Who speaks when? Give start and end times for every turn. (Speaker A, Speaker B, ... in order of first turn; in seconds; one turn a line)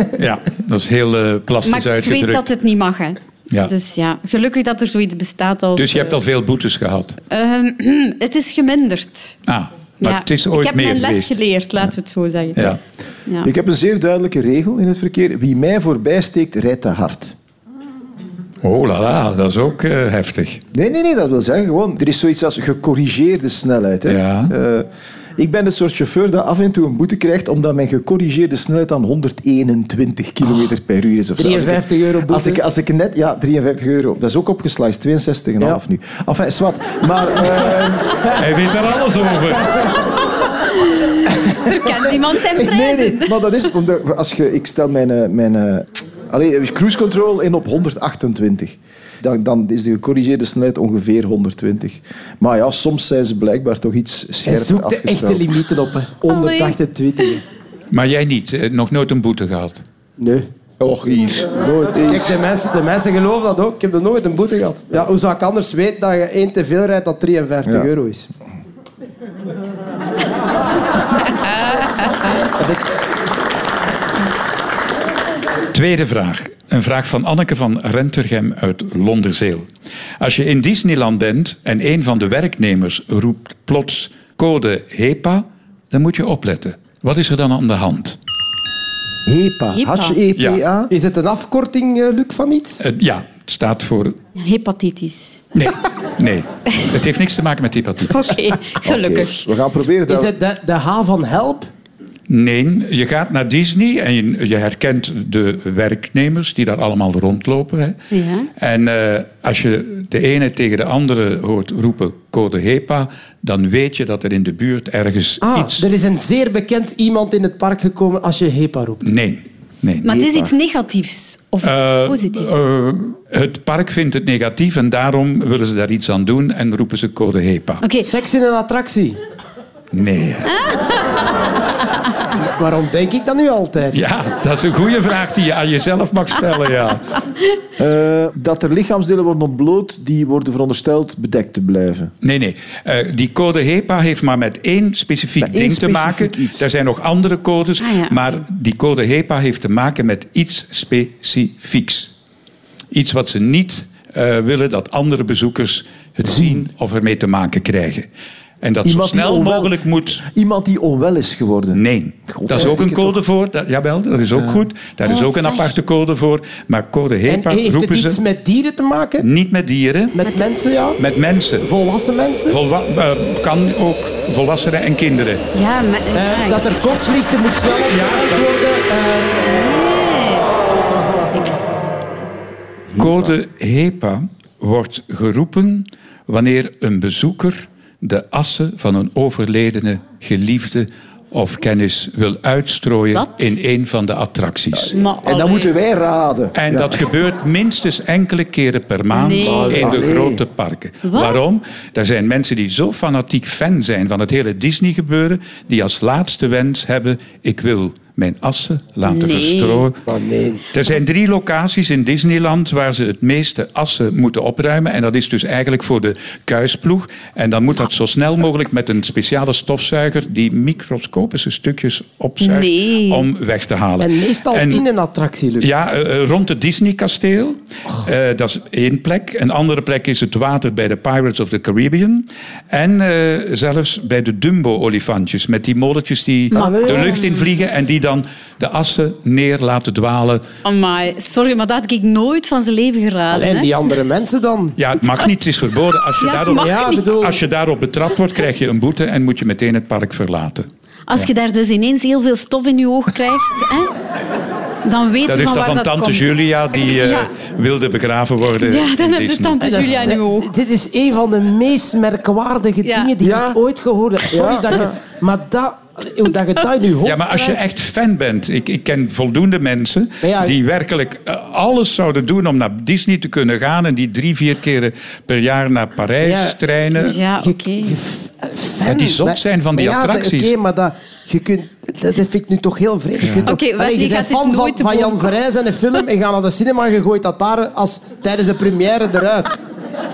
Speaker A: 0.2-2.5
Speaker B: 1.6-6.2
Speaker A: 5.8-7.2
Speaker B: 7.3-9.4
Speaker A: 9.5-11.3
Speaker B: 10.0-12.6
Speaker C: 13.4-17.4
Speaker A: 18.6-20.6
Speaker C: 20.7-38.3
Speaker A: 24.1-24.5
Speaker D: 31.4-32.6
Speaker A: 38.3-39.8
Speaker B: 40.9-43.5
Speaker C: 42.4-55.5
Speaker D: 54.5-57.4
Speaker B: 56.3-56.8
Speaker A: 57.9-59.8
Speaker D: 60.2-60.5
Speaker C: 60.8-62.4
Speaker D: 61.6-68.3
Speaker A: 75.7-79.7
Speaker A: 80.2-88.2
Speaker C: 89.3-90.9
Speaker B: 89.7-90.2
Speaker A: 90.4-90.6
Speaker D: 90.9-92.8
Speaker A: 92.8-94.2
Speaker B: 94.3-95.4
Speaker A: 95.5-98.4
Speaker B: 98.1-99.5
Speaker C: 98.8-100.3
Speaker D: 100.1-101.7
Speaker A: 102.3-108.0
Speaker B: 108.1-108.5
Speaker A: 108.6-115.9
Speaker D: 115.4-119.1
Speaker A: 119.0-120.1
Speaker B: 120.0-122.5
Speaker C: 120.1-120.5
Speaker A: 121.6-127.8
Speaker B: 127.8-128.1
Speaker D: 128.0-129.2
Speaker A: 129.9-130.6
Speaker D: 132.4-134.0
Speaker A: 133.9-137.2
Speaker C: 137.8-142.1
Speaker A: 142.2-152.1
Speaker C: 145.4-146.7
Speaker B: 147.8-148.2
Speaker A: 152.9-158.1
Speaker C: 156.2-156.7
Speaker A: 158.6-160.2
Speaker C: 158.8-163.2
Speaker A: 161.7-168.2
Speaker B: 165.1-165.8
Speaker D: 167.3-169.3
Speaker A: 169.2-170.2
Speaker D: 170.1-171.0
Speaker A: 171.0-171.7
Speaker D: 171.6-172.6
Speaker A: 172.5-175.4
Speaker B: 175.5-176.6
Speaker D: 176.2-179.6
Speaker A: 177.9-178.5
Speaker B: 179.4-180.5
Speaker C: 182.9-183.3
Speaker A: 183.0-195.0
Speaker B: 193.1-193.6
Speaker C: 194.8-197.1
Speaker B: 194.9-195.7
Speaker A: 196.6-210.0
Speaker B: 199.1-200.0
Speaker C: 199.4-200.4
Speaker B: 201.1-201.4
Speaker B: 209.0-209.9
Speaker D: 210.1-210.7
Speaker A: 210.7-224.8
Speaker B: 222.4-223.3
Speaker D: 224.0-225.7
Speaker A: 225.6-240.4
Speaker B: 236.5-237.4
Speaker D: 236.5-237.2
Speaker B: 240.6-243.7
Speaker D: 243.3-244.8
Speaker A: 244.8-251.3
Speaker B: 246.2-247.1
Speaker D: 246.6-247.4
Speaker B: 251.1-253.9
Speaker B: 254.8-257.3
Speaker A: 255.3-260.0
Speaker B: 258.6-260.5
Speaker D: 259.6-267.6
Speaker B: 262.8-263.1
Speaker C: 263.2-263.6
Speaker C: 264.3-264.9
Speaker A: 267.0-277.2
Speaker D: 270.2-270.6
Speaker D: 276.2-276.6
Speaker B: 276.9-278.0
Speaker D: 277.4-289.6
Speaker A: 278.9-280.5
Speaker A: 283.2-283.5
Speaker B: 283.5-285.3